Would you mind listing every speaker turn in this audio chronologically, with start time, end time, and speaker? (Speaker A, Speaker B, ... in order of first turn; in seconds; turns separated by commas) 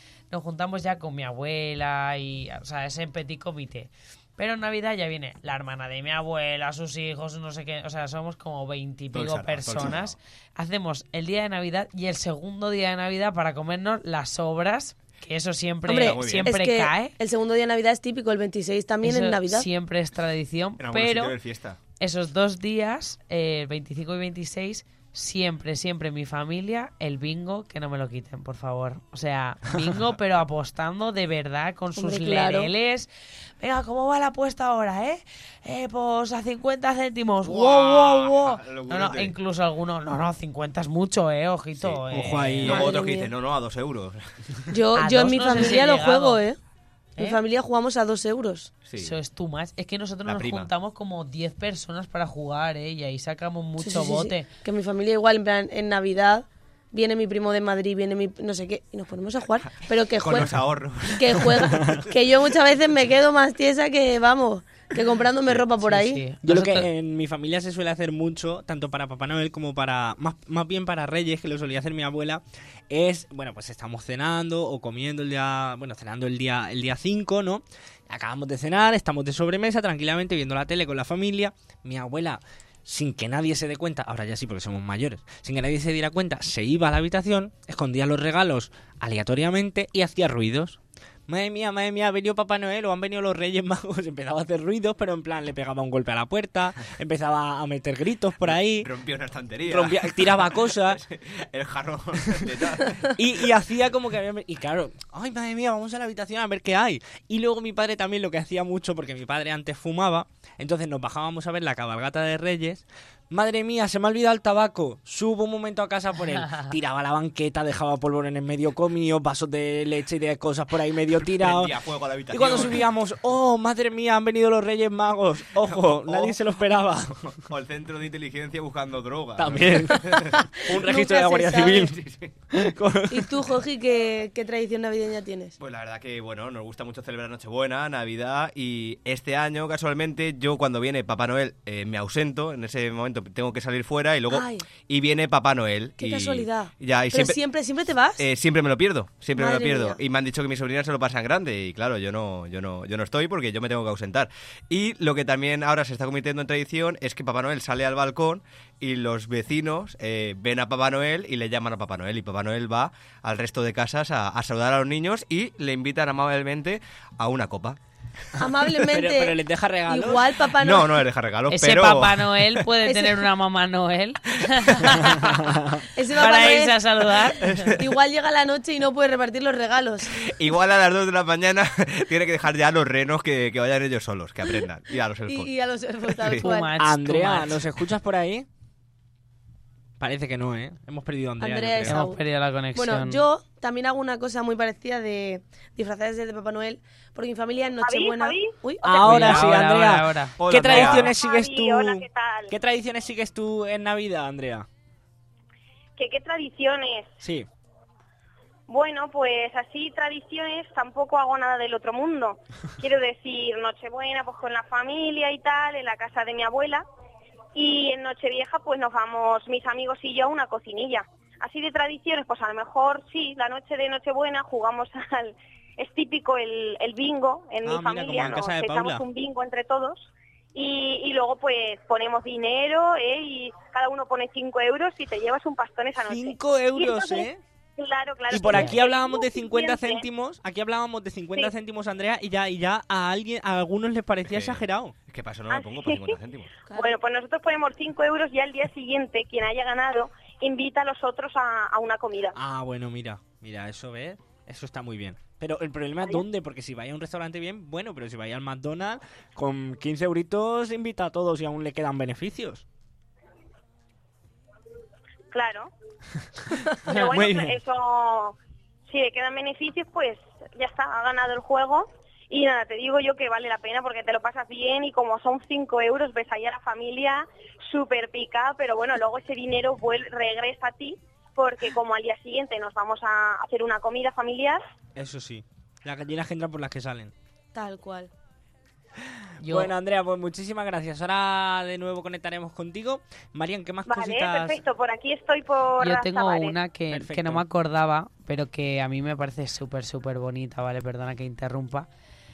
Speaker A: 0.3-17.1, Speaker B: 9.1-10.2, Speaker C: 15.9-19.7, Speaker B: 15.9-16.5, Speaker A: 19.0-21.4, Speaker B: 20.8-21.8, Speaker A: 22.0-33.1, Speaker C: 32.0-32.7, Speaker A: 33.6-42.9, Speaker B: 37.4-39.4, Speaker B: 41.8-42.0, Speaker D: 42.1-42.9, Speaker B: 42.6-44.6, Speaker C: 42.7-43.3, Speaker C: 44.7-46.6, Speaker A: 45.0-46.4, Speaker C: 47.2-48.7, Speaker B: 48.8-49.2, Speaker A: 49.0-54.5, Speaker B: 50.3-50.7, Speaker C: 53.8-66.2, Speaker B: 60.2-62.1, Speaker D: 61.6-62.0, Speaker A: 65.8-66.9, Speaker D: 66.4-98.9, Speaker B: 98.4-103.5, Speaker D: 99.7-101.0, Speaker D: 103.1-121.8, Speaker B: 121.3-122.9, Speaker D: 122.3-127.4, Speaker B: 125.6-126.4, Speaker B: 127.3-130.4, Speaker D: 129.4-131.9, Speaker C: 130.0-131.9, Speaker B: 131.8-132.3, Speaker D: 132.5-133.3, Speaker C: 133.1-135.6, Speaker B: 135.6-147.4, Speaker C: 144.3-144.7, Speaker C: 146.0-148.2, Speaker B: 148.2-167.8, Speaker C: 149.3-150.0, Speaker C: 168.4-171.1, Speaker D: 168.9-170.4, Speaker B: 170.6-172.7, Speaker A: 171.5-175.5, Speaker C: 172.9-173.2, Speaker B: 174.7-174.9, Speaker C: 175.9-176.8, Speaker A: 176.2-177.8, Speaker C: 177.7-180.2, Speaker B: 180.2-185.5, Speaker C: 185.3-186.7, Speaker B: 186.1-186.5, Speaker A: 186.4-187.6, Speaker D: 186.8-188.5, Speaker D: 190.0-192.0, Speaker C: 191.4-192.2, Speaker A: 191.9-193.2, Speaker C: 192.7-199.4, Speaker E: 197.8-198.6, Speaker D: 198.8-204.7, Speaker A: 199.0-200.4, Speaker B: 200.4-201.2, Speaker E: 200.7-202.5, Speaker E: 206.0-207.1, Speaker D: 207.2-207.5, Speaker E: 208.7-216.8, Speaker E: 217.6-240.1, Speaker D: 227.6-229.0, Speaker D: 236.1-237.4, Speaker D: 238.3-244.9, Speaker B: 244.2-246.5, Speaker E: 245.5-246.2, Speaker E: 246.7-252.4, Speaker D: 252.3-262.6, Speaker E: 265.3-265.7, Speaker E: 266.8-268.4, Speaker D: 266.9-267.6, Speaker E: 268.9-284.6, Speaker D: 284.9-287.1, Speaker C: 287.5-288.1, Speaker A: 289.4-289.7, Speaker D: 289.4-294.6, Speaker E: 293.9-296.6, Speaker A: 295.8-301.9, Speaker D: 296.9-297.4